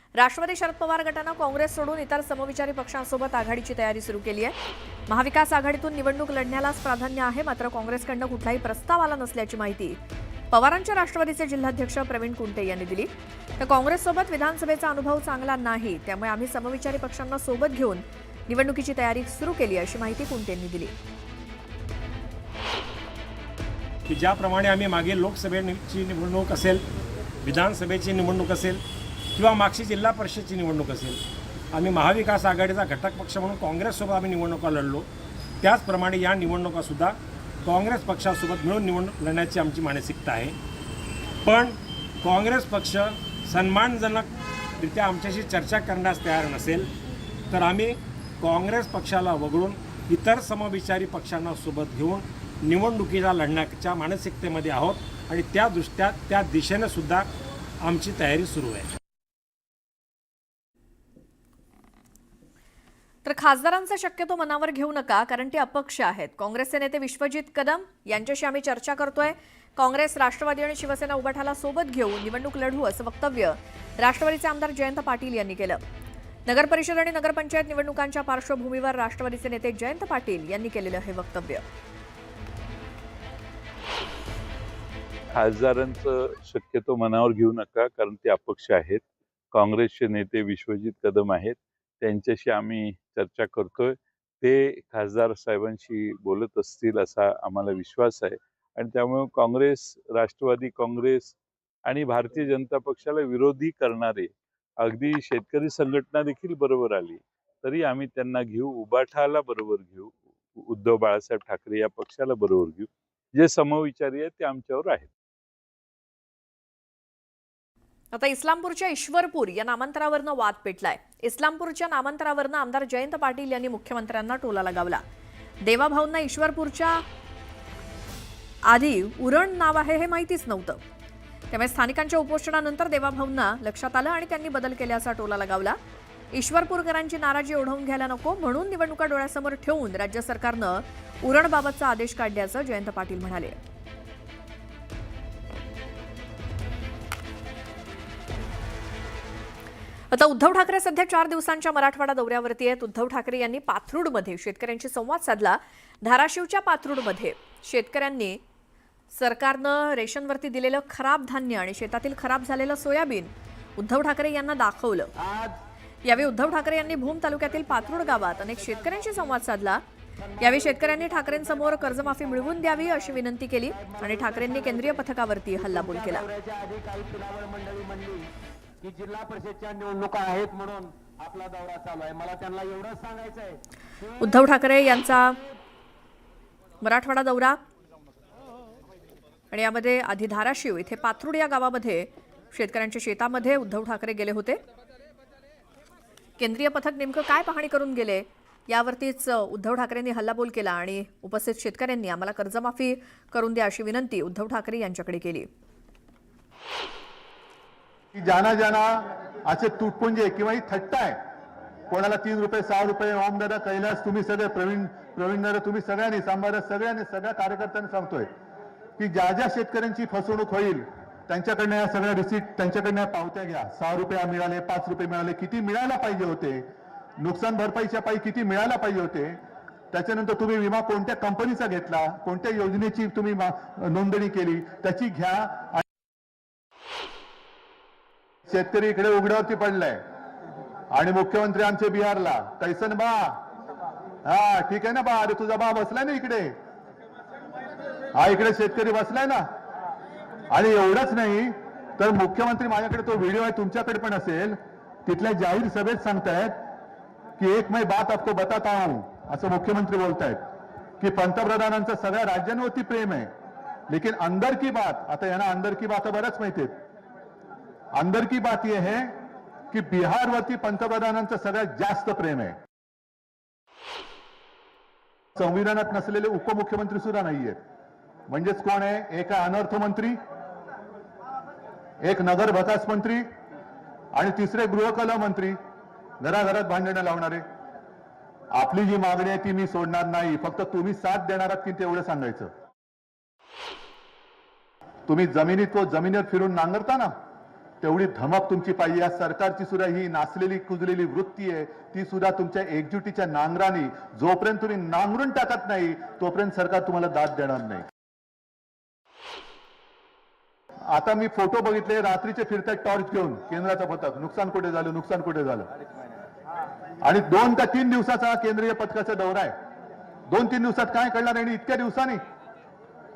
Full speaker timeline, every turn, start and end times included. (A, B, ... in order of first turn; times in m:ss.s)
0:00.2-0:04.6 A
0:05.1-0:10.0 A
0:10.5-0:20.9 A
0:24.1-0:26.8 B
0:27.4-0:28.8 B
0:29.4-0:31.2 B
0:31.7-0:35.1 B
0:35.6-0:40.6 B
0:41.4-0:46.9 B
0:47.5-0:57.3 B
0:57.8-0:59.0 B
1:03.2-1:15.8 A
1:16.5-1:21.6 A
1:25.4-1:55.1 C
1:58.1-2:05.0 A
2:05.6-2:07.0 A
2:08.7-2:10.8 A
2:11.5-2:15.8 A
2:16.3-2:23.6 A
2:30.1-2:38.4 A
2:39.1-2:45.1 A
2:45.2-2:45.6 D
2:46.1-2:49.8 A
2:47.8-2:49.3 D
2:50.2-2:55.0 D
2:50.4-2:56.2 A
2:55.6-2:58.3 D
2:58.8-3:04.3 D
3:04.2-3:05.4 A
3:06.8-3:07.6 A
3:09.5-3:14.6 A
3:16.4-3:25.5 A
3:28.1-3:31.2 E
3:31.9-3:38.3 E
3:39.0-3:46.6 E
3:47.2-3:49.4 E
3:49.9-3:55.8 E
3:58.5-4:00.0 E
4:00.9-4:03.4 E
4:04.2-4:06.5 E
4:08.2-4:09.4 E
4:10.5-4:16.6 E
4:17.4-4:20.4 E
4:21.0-4:23.3 E
4:23.9-4:26.8 E
4:28.0-4:29.2 E
4:29.7-4:32.6 E
4:35.4-4:37.6 E
4:38.3-4:40.2 E
4:42.0-4:43.2 E
4:44.1-4:45.6 E
4:46.2-4:47.4 E
4:48.5-4:52.5 E
4:55.1-4:57.1 E
4:57.8-5:07.9 E
5:10.9-5:15.7 E
5:17.0-5:19.5 E
5:20.3-5:22.2 E